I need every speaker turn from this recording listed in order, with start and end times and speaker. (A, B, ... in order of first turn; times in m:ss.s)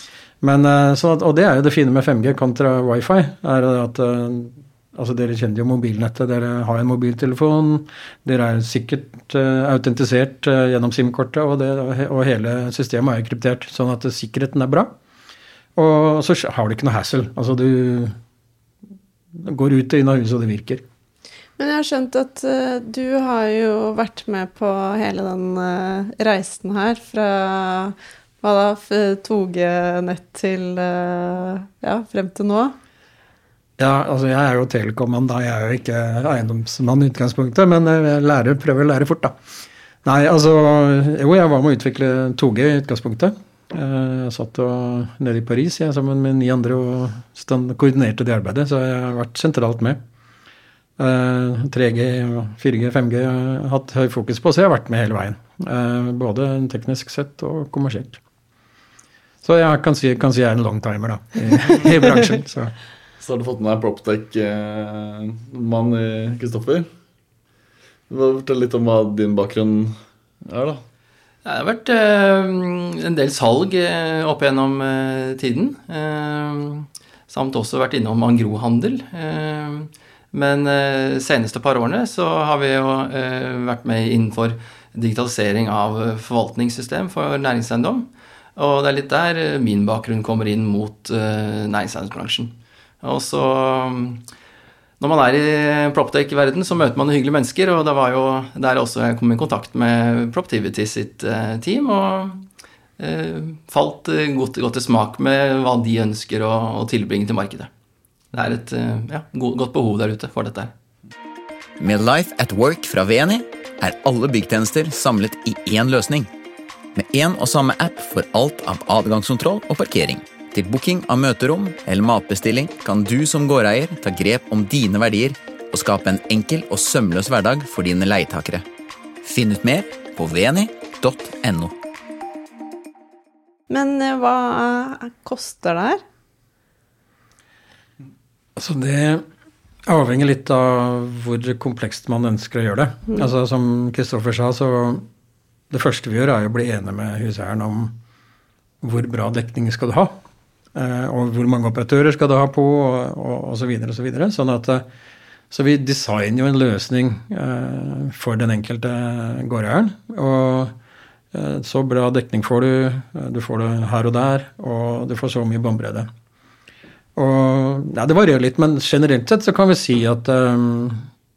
0:00.4-0:14.9 A
0:15.8-0:18.2 A
0:19.4-0:20.8 A
0:21.6-0:32.8 B
0:33.8-0:39.3 A
0:40.0-0:50.0 A
0:51.0-0:58.2 A
0:59.4-1:02.7 A
1:03.2-1:06.9 C
1:08.1-1:10.8 C
1:11.4-1:34.2 D
1:35.0-1:42.4 D
1:43.0-1:47.7 D
1:48.3-1:50.7 D
1:51.8-1:56.3 E
1:56.9-2:08.6 E
2:09.2-2:11.7 E
2:13.7-2:16.0 B
2:18.6-2:19.2 A
2:19.9-2:25.0 A
2:25.7-2:28.0 A
2:28.8-2:30.2 A
2:30.7-2:34.8 A
2:35.5-2:40.7 A
2:41.3-2:46.1 A
2:47.2-2:51.1 A